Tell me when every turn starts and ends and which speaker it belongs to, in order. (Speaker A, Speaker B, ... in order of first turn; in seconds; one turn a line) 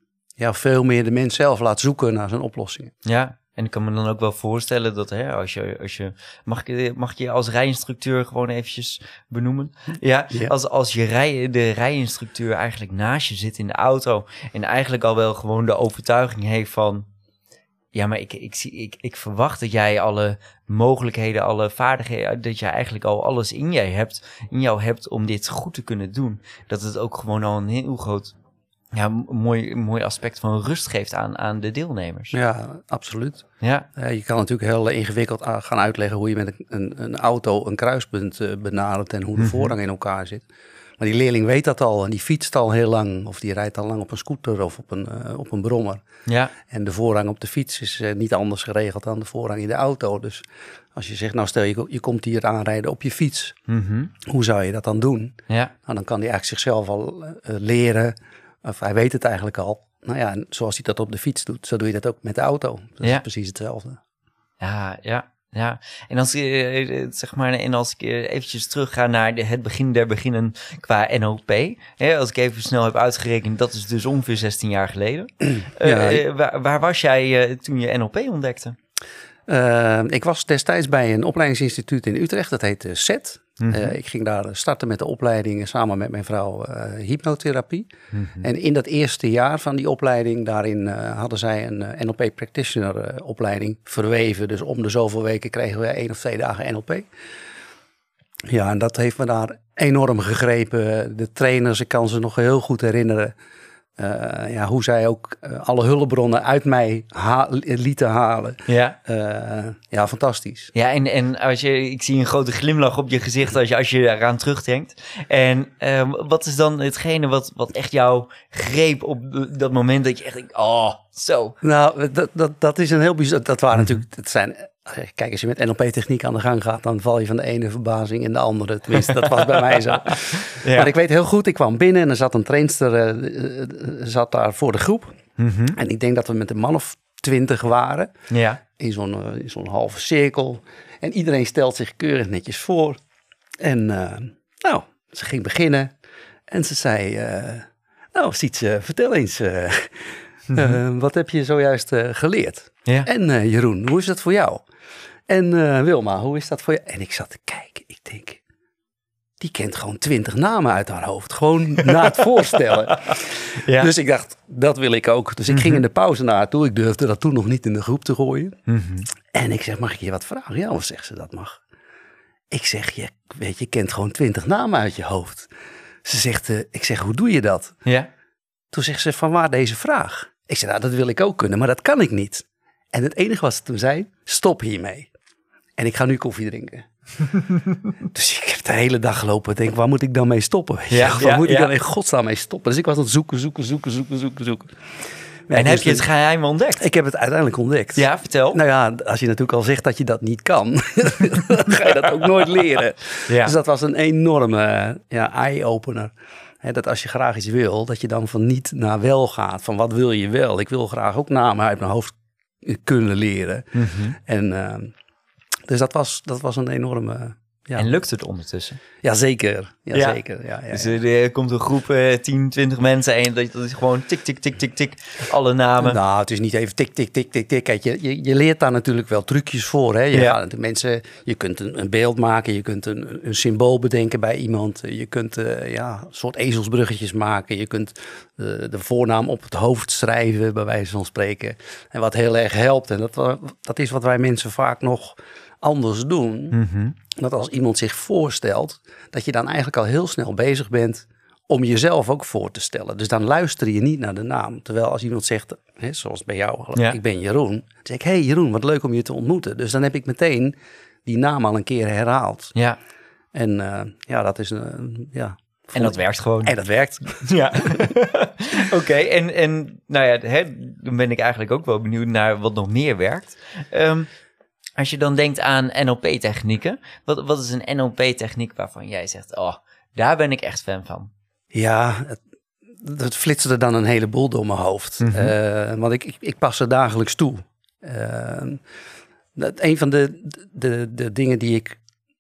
Speaker A: 0.4-2.9
Speaker B: 3.0-17.1
Speaker B: 17.9-28.4
Speaker B: 28.9-32.4
Speaker A: 32.3-40.5
Speaker B: 33.6-33.9
Speaker B: 39.4-39.7
Speaker A: 41.0-46.0
Speaker B: 46.3-46.5
Speaker A: 46.6-53.6
Speaker B: 53.7-54.1
Speaker A: 54.2-64.0
Speaker B: 64.6-78.8
Speaker A: 75.8-76.2
Speaker A: 79.5-87.9
Speaker B: 83.6-84.0
Speaker B: 88.1-88.5
Speaker A: 88.4-97.1
Speaker A: 98.5-103.3
Speaker A: 104.0-110.7
Speaker B: 108.7-109.0
Speaker B: 110.7-121.6
Speaker A: 121.6-135.2
Speaker B: 129.2-130.9
Speaker B: 135.4-135.8
Speaker A: 135.8-138.1
Speaker B: 138.3-138.6
Speaker A: 138.6-143.0
Speaker A: 143.6-145.9
Speaker A: 146.5-154.7
Speaker A: 155.3-158.4
Speaker A: 159.4-168.6
Speaker B: 162.7-163.9
Speaker B: 165.5-165.8
Speaker B: 168.7-169.1
Speaker A: 169.3-171.6
Speaker A: 172.5-175.5
Speaker A: 176.0-177.8
Speaker A: 178.7-185.1
Speaker A: 185.8-186.9
Speaker B: 187.3-187.9
Speaker A: 188.0-194.7
Speaker B: 190.9-191.7
Speaker A: 195.5-196.1
Speaker B: 195.5-196.8
Speaker A: 196.8-214.9
Speaker B: 197.9-198.6
Speaker B: 203.3-203.6
Speaker B: 213.8-214.2
Speaker A: 215.7-217.9
Speaker B: 217.8-218.8
Speaker A: 219.0-221.0
Speaker B: 219.9-226.0
Speaker A: 225.8-246.6
Speaker B: 230.1-230.4
Speaker B: 246.5-247.0
Speaker A: 247.1-262.5
Speaker A: 263.3-267.9
Speaker B: 265.7-274.1
Speaker B: 274.8-281.1
Speaker A: 281.5-282.2
Speaker A: 282.8-288.6
Speaker B: 285.0-285.4
Speaker A: 289.4-291.8